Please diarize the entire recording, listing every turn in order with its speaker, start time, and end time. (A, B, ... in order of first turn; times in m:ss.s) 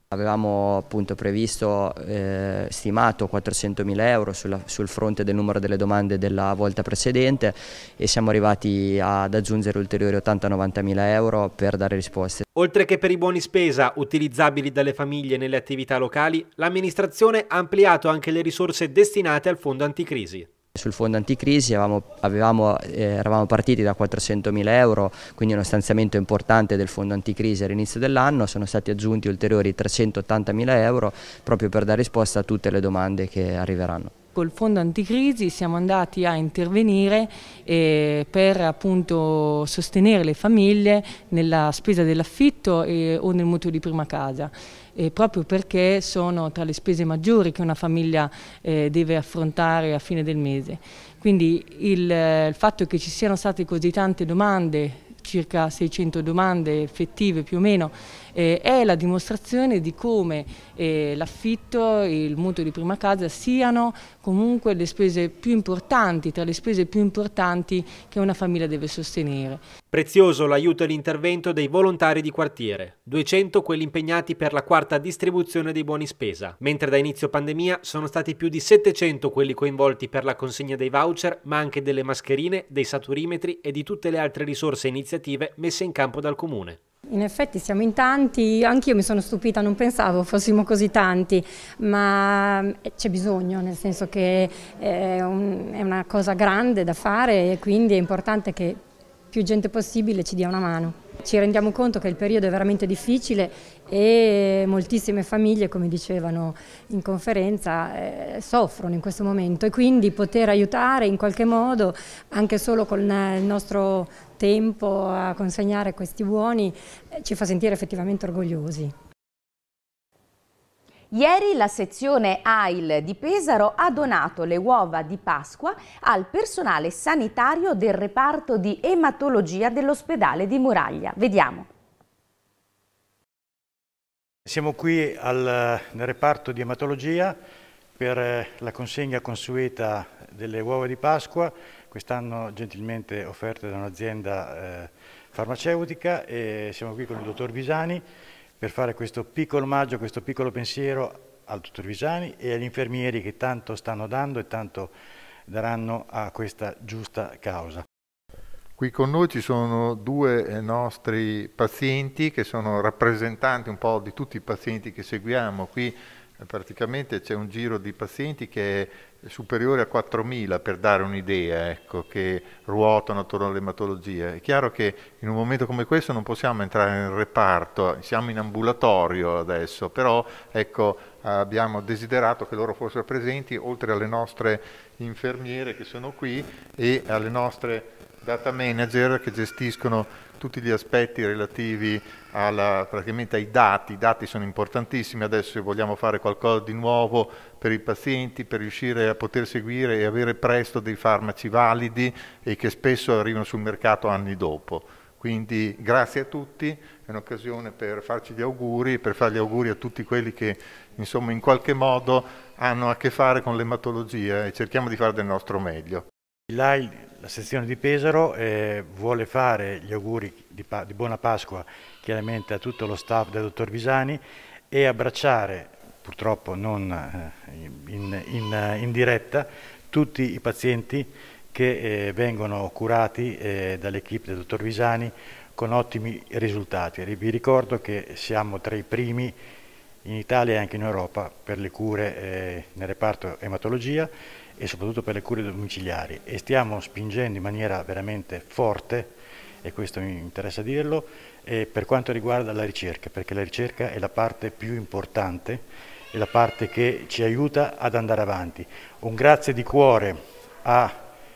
0:00.1-0:12.4 A
0:12.5-0:20.5 B
0:20.8-0:34.1 A
0:34.4-1:09.6 C
1:09.9-1:26.8 B
1:27.1-1:38.8 D
1:39.3-1:58.9 D
2:01.1-2:11.7 E
2:14.5-2:17.4 F
2:18.0-2:28.0 F
2:28.6-2:34.9 F
2:35.5-2:37.8 F
2:38.8-3:36.1 G
3:36.5-3:59.4 F
4:00.0-4:21.0 F